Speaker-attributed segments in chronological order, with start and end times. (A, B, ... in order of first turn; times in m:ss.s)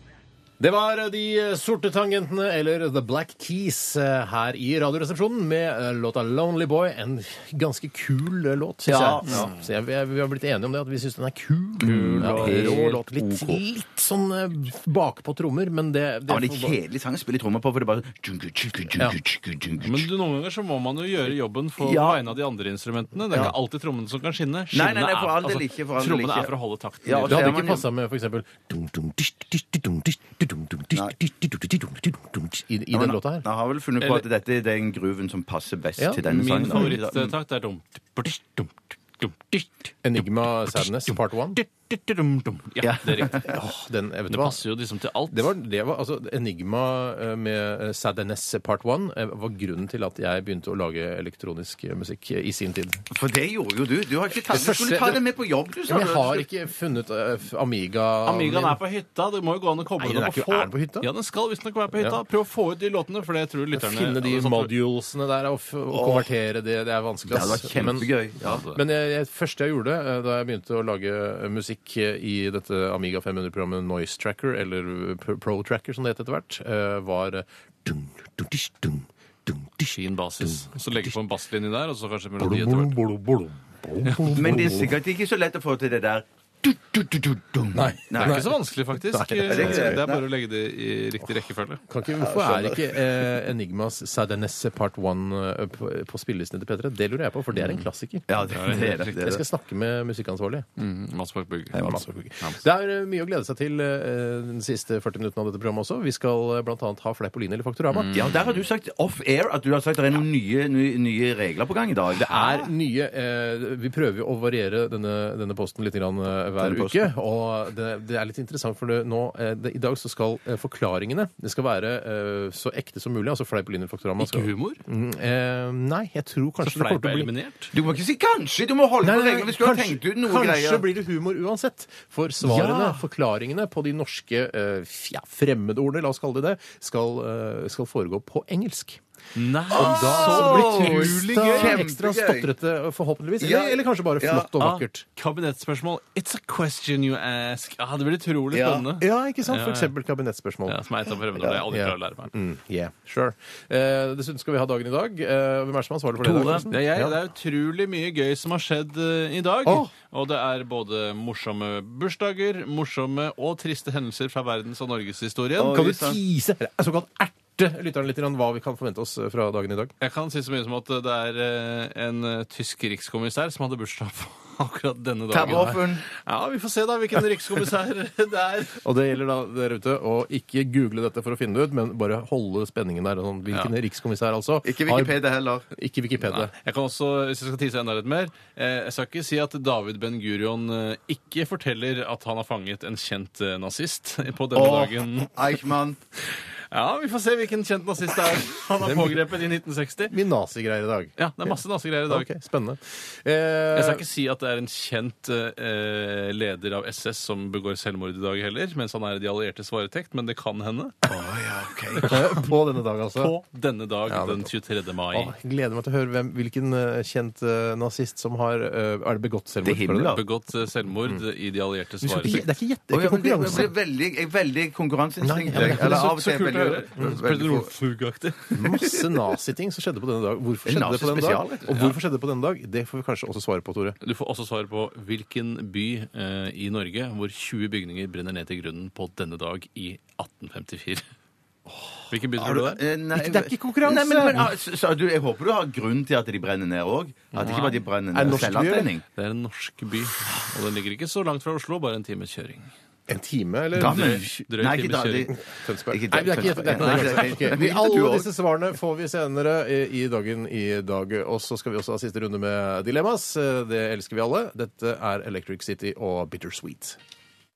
0:00.6-0:16.8 A
0:08.9-0:09.5 B
0:09.3-0:09.6 C
0:11.8-0:13.6 B
0:12.1-0:12.9 C
0:16.3-0:20.1 B
0:19.8-0:27.6 C
0:21.8-0:22.2 B
0:24.7-0:26.5 B
0:27.0-0:27.8 B
0:27.3-0:33.5 A
0:32.9-0:37.3 B
0:34.0-0:34.3 C
0:36.0-0:37.0 A
0:36.2-0:43.5 C
0:40.0-0:41.6 A
0:42.8-0:43.6 B
0:43.3-0:44.6 A
0:44.3-0:45.5 C
0:45.3-0:53.0 A
0:53.1-0:56.4 B
0:54.5-0:55.2 A
0:55.9-0:58.8 A
0:58.2-1:04.7 C
1:00.0-1:01.1 A
1:03.7-1:08.1 A
1:05.9-1:06.3 B
1:07.3-1:08.6 B
1:08.4-1:08.8 C
1:08.7-1:21.2 A
1:20.0-1:23.0 C
1:22.4-1:24.9 A
1:24.0-1:24.6 C
1:24.4-1:28.5 B
1:27.7-1:30.0 A
1:28.2-1:31.8 C
1:29.5-1:30.2 B
1:31.9-1:40.7 A
1:32.2-1:33.0 B
1:37.6-1:37.8 C
1:38.3-1:39.4 B
1:38.5-1:39.1 C
1:40.8-1:42.6 C
1:41.8-1:48.2 A
1:47.9-1:48.6 C
1:48.1-1:52.7 B
1:52.1-2:07.3 A
1:56.6-1:57.1 B
2:04.2-2:04.8 C
2:06.6-2:07.7 C
2:07.7-2:10.9 B
2:09.0-2:19.0 A
2:19.4-2:21.8 C
2:19.7-2:22.5 B
2:19.7-2:25.0 A
2:23.4-2:24.5 B
2:24.6-2:29.9 C
2:28.5-2:28.9 B
2:29.0-2:30.8 A
2:30.7-2:32.3 C
2:31.6-2:37.2 A
2:36.2-2:36.7 B
2:36.4-2:45.9 C
2:39.6-2:39.9 A
2:45.6-2:46.2 B
2:45.6-2:49.9 A
2:50.0-2:58.8 C
2:55.3-2:56.0 B
2:55.5-2:55.8 A
2:58.8-3:05.2 A
3:04.6-3:05.7 B
3:05.7-3:06.5 A
3:06.3-3:15.5 C
3:14.5-3:16.0 B
3:16.3-3:20.1 C
3:18.8-3:19.2 A
3:20.1-3:21.5 A
3:21.2-3:22.3 C
3:22.1-3:24.0 A
3:23.7-3:31.0 C
3:31.0-3:32.1 B
3:32.0-3:33.3 A
3:33.2-3:35.3 C
3:34.1-3:34.5 A
3:35.1-3:40.2 A
3:39.6-3:40.2 B
3:40.1-3:42.4 C
3:42.0-3:43.7 A
3:42.9-3:47.7 B
3:45.2-3:46.2 A
3:45.5-3:48.8 C
3:48.5-3:54.0 A
3:50.6-3:51.7 B
3:54.0-4:01.1 C
4:02.1-4:02.8 C
4:02.4-4:09.0 B
4:03.1-4:04.5 A
4:07.3-4:07.8 C
4:08.1-4:08.9 A
4:09.2-4:12.7 C
4:13.1-4:14.2 A
4:13.8-4:15.3 C
4:13.8-4:15.3 B
4:15.3-4:27.0 A
4:15.9-4:18.3 B
4:16.8-4:17.4 C